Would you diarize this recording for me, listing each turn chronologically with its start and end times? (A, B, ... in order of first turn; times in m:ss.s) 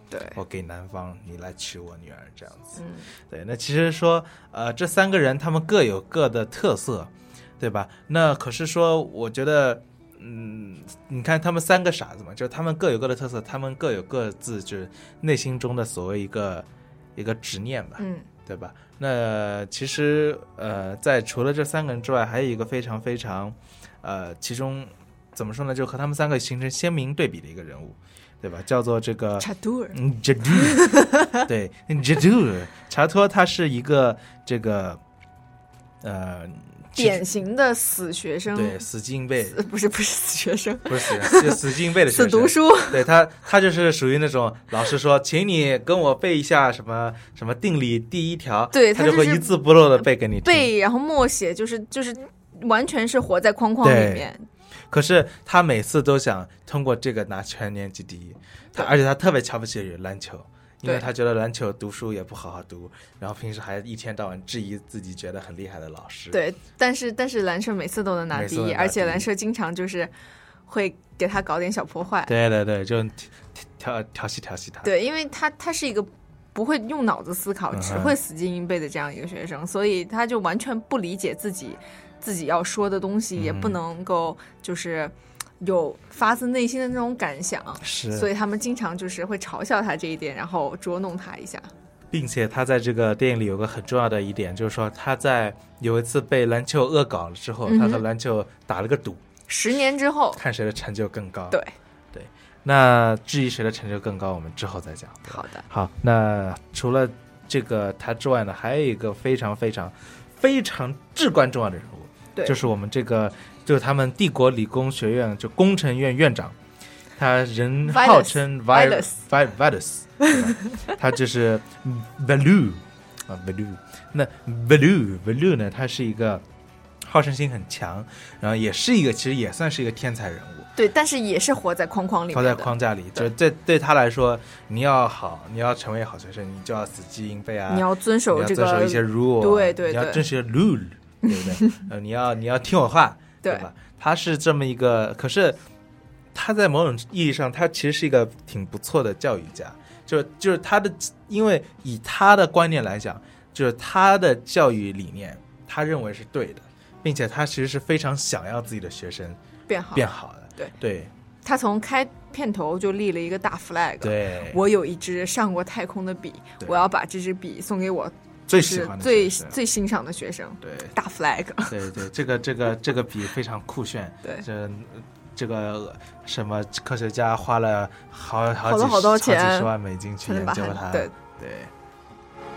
0:00.1-0:00.4 A
0:00.4-0:30.9 B
0:02.8-0:03.1 A
0:18.0-0:18.3 A
0:29.4-0:30.0 A
0:30.5-0:31.5 A
0:31.5-0:35.0 B
0:36.0-0:37.2 B
0:37.0-0:38.8 A
0:38.5-0:39.6 B
0:39.4-0:43.1 A
0:40.9-0:50.7 B
0:48.7-0:54.5 A
0:53.8-0:54.3 B
0:54.9-1:06.4 B
1:00.8-1:01.1 A
1:06.3-1:10.1 A
1:08.3-1:09.3 B
1:10.7-1:12.4 A
1:12.3-1:14.9 B
1:14.8-1:31.7 A
1:17.7-1:18.2 B
1:23.4-1:23.8 B
1:27.8-1:28.3 B
1:32.1-1:39.2 B
1:37.7-1:38.0 A
1:39.5-1:40.4 A
1:40.4-1:41.6 B
1:42.1-1:56.6 B
1:45.3-1:45.7 A
1:52.4-1:52.6 A
1:57.2-2:06.4 B
1:57.9-1:59.2 A
2:07.0-2:10.7 B
2:10.8-2:13.3 A
2:12.3-2:25.6 B
2:17.7-2:20.3 A
2:21.2-2:21.8 A
2:23.4-2:23.7 A
2:26.3-2:39.4 B
2:39.7-2:40.8 A
2:39.9-2:41.1 B
2:41.4-2:51.9 A
2:44.0-2:44.6 B
2:48.5-2:49.6 B
2:50.6-2:51.0 B
2:51.7-3:01.7 B
2:58.6-2:59.7 A
3:00.2-3:01.1 A